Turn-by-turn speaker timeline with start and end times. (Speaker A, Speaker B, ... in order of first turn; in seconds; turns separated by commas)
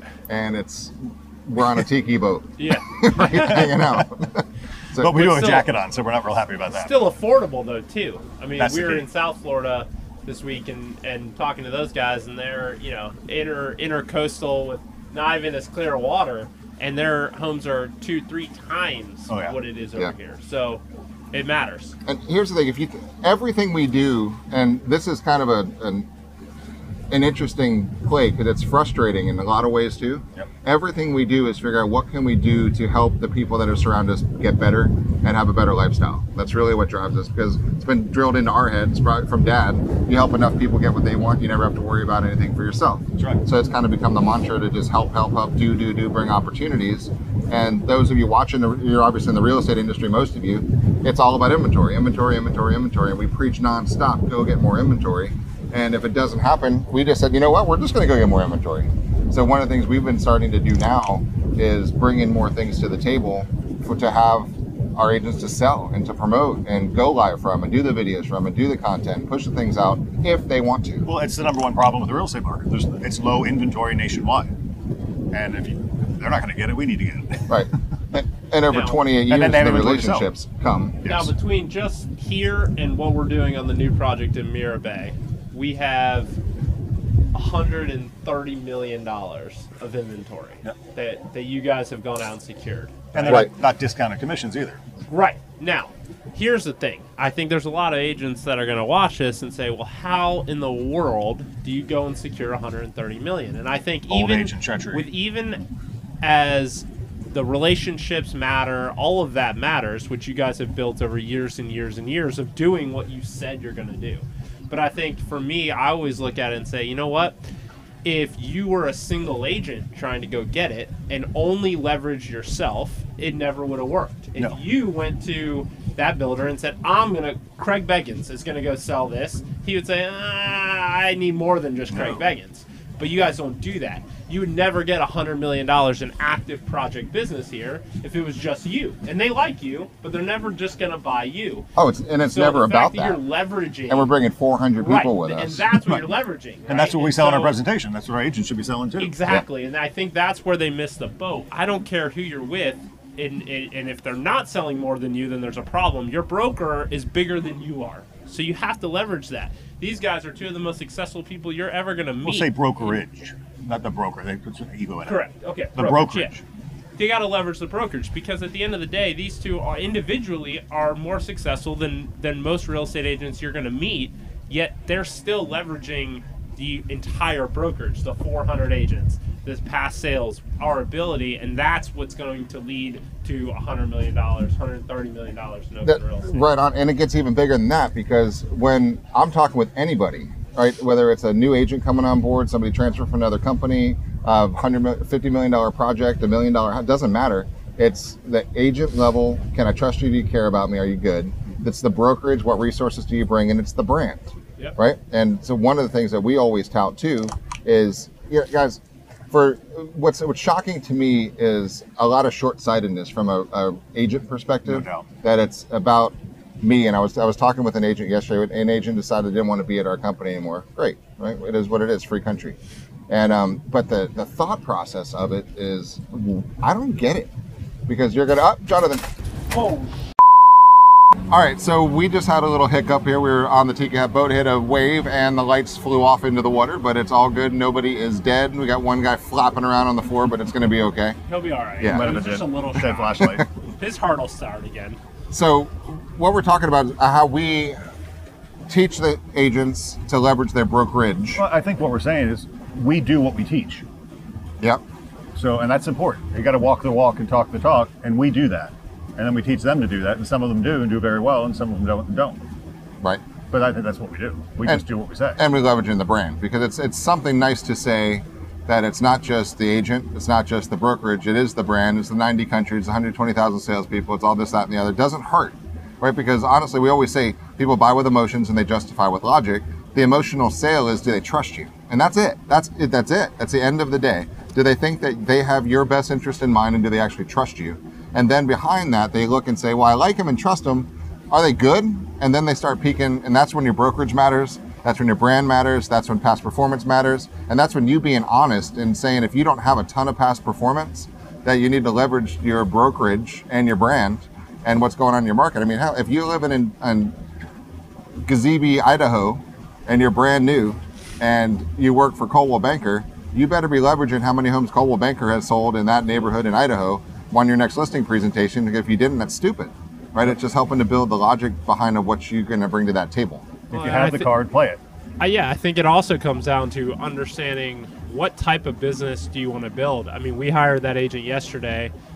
Speaker A: 0.3-5.2, Speaker B: 2.6-4.0, Speaker C: 5.0-6.9, Speaker B: 5.1-5.7, Speaker B: 6.7-22.0, Speaker C: 8.6-9.1, Speaker C: 19.3-19.6, Speaker A: 22.1-26.1, Speaker A: 27.1-71.1, Speaker C: 43.2-43.4, Speaker C: 71.1-74.6, Speaker C: 75.3-77.7, Speaker A: 77.5-81.0, Speaker B: 78.7-79.0, Speaker C: 79.3-80.3, Speaker C: 81.0-81.3, Speaker B: 81.0-86.4, Speaker B: 87.3-93.5, Speaker C: 93.1-94.8, Speaker B: 95.1-105.6, Speaker C: 104.1-105.1, Speaker B: 106.2-117.4, Speaker B: 118.0-141.7, Speaker C: 131.9-132.2, Speaker A: 141.8-143.2, Speaker B: 142.3-144.1, Speaker A: 143.9-145.6, Speaker B: 144.8-147.6, Speaker C: 145.7-146.1, Speaker C: 146.7-149.2, Speaker B: 149.0-162.5, Speaker C: 162.2-166.4, Speaker B: 165.1-166.3, Speaker B: 167.0-186.5, Speaker A: 185.8-222.6, Speaker C: 214.7-215.1, Speaker A: 223.1-227.3, Speaker A: 227.9-229.1, Speaker B: 229.5-229.9, Speaker A: 231.3-241.2, Speaker B: 241.3-245.0, Speaker A: 241.8-242.1, Speaker C: 241.8-243.5, Speaker A: 245.3-247.8, Speaker A: 248.7-251.4, Speaker C: 251.3-253.8, Speaker C: 255.3-262.4, Speaker C: 263.5-265.4, Speaker A: 265.4-307.1, Speaker A: 308.3-323.5, Speaker B: 323.7-324.3, Speaker C: 323.7-324.8, Speaker B: 325.2-331.9